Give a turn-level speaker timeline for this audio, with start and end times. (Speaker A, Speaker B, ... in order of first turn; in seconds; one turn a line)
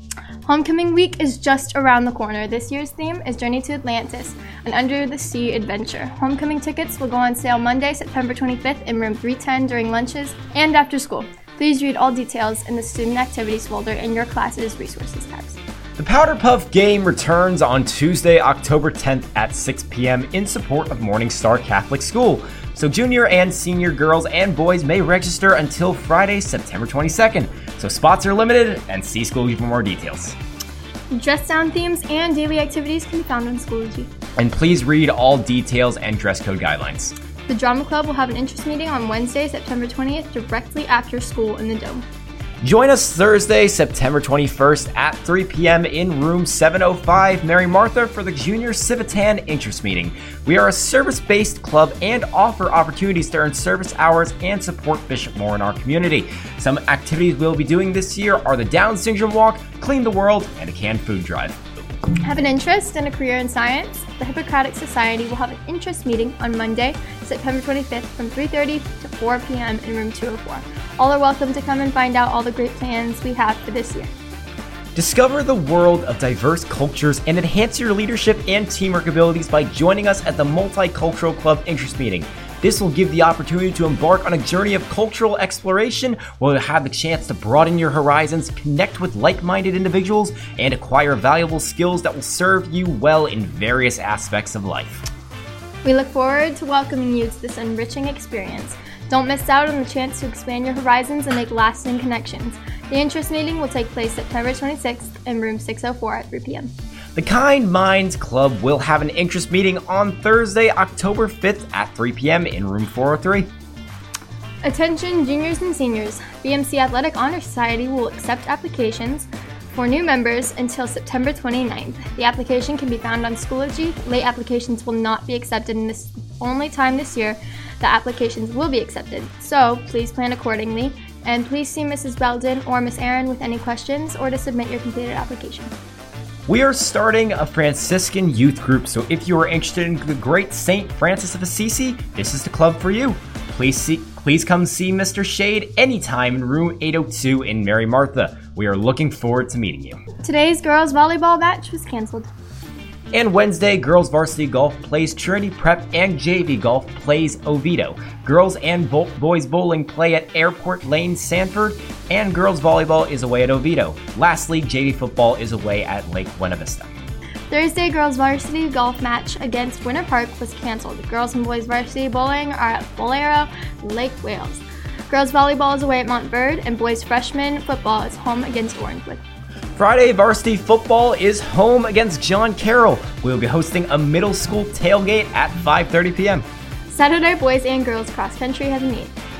Speaker A: 0.5-15.6
Speaker B: 16.0-30.4
Speaker A: 31.1-34.1
Speaker B: 34.4-37.1
Speaker A: 37.5-42.0
Speaker B: 42.6-61.6
Speaker A: 62.2-74.1
Speaker B: 75.0-95.0
Speaker A: 95.8-106.7
Speaker B: 107.2-113.5
Speaker A: 114.6-135.7
Speaker B: 136.5-150.0
Speaker A: 150.2-152.3
Speaker B: 153.1-167.0
Speaker A: 167.5-179.2
Speaker B: 179.8-186.4
Speaker A: 186.9-189.1